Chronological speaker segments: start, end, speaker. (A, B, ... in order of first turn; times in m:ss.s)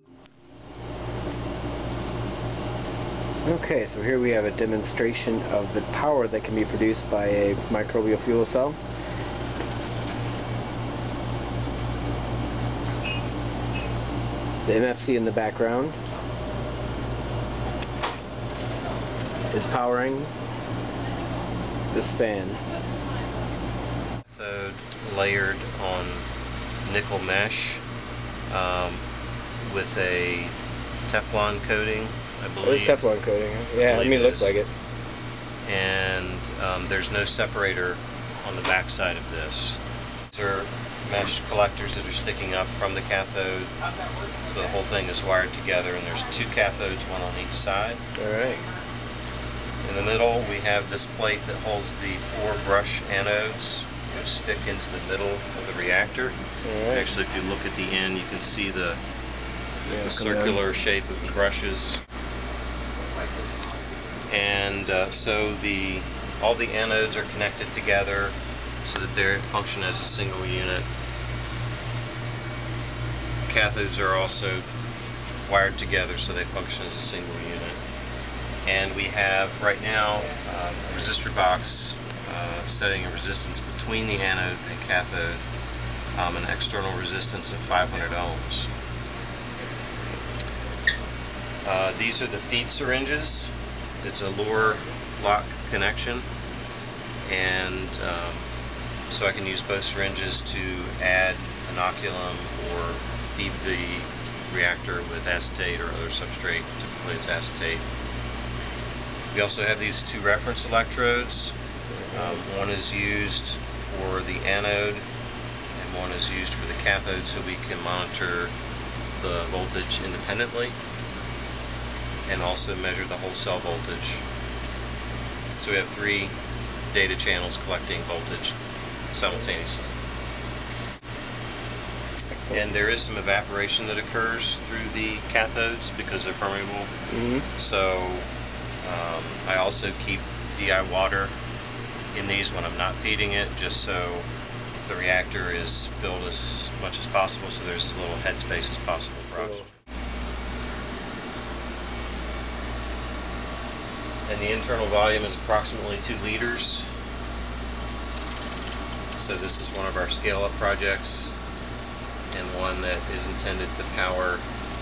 0:03.5-0:08.8 A
0:14.7-0:16.0 A
0:19.5-0:20.3 A
0:21.9-0:22.6 A
0:24.3-0:26.2 B
0:26.8-0:27.8 B
0:28.5-0:29.0 B
0:29.6-0:30.6 B
0:31.1-0:33.1 B
0:32.6-0:34.7 A
0:33.9-0:34.5 B
0:35.7-0:39.8 B
0:40.3-0:43.7 B
0:44.5-0:48.0 B
0:48.2-0:48.6 A
0:49.8-0:56.4 B
0:56.6-0:57.1 A
0:56.9-0:59.0 B
0:59.9-1:00.6 A
1:00.0-1:02.0 B
1:04.3-1:10.9 B
1:13.5-1:14.6 B
1:15.5-1:17.8 B
1:18.6-1:25.4 B
1:26.2-1:28.7 B
1:31.6-1:36.3 B
1:37.3-1:38.5 B
1:39.1-1:47.8 B
1:49.3-1:51.6 B
1:51.9-1:52.4 A
1:52.1-1:55.1 B
1:55.8-1:58.5 B
1:59.2-2:00.8 B
2:02.3-2:04.2 B
2:05.6-2:06.3 B
2:06.9-2:08.6 B
2:09.1-2:10.0 B
2:12.3-2:12.6 A
2:12.5-2:16.9 B
2:17.1-2:17.5 A
2:17.6-2:18.3 B
2:18.8-2:21.3 B
2:22.1-2:24.3 B
2:24.9-2:29.7 B
2:29.3-2:29.6 A
2:34.3-2:36.9 B
2:39.2-2:41.4 B
2:42.3-2:44.4 B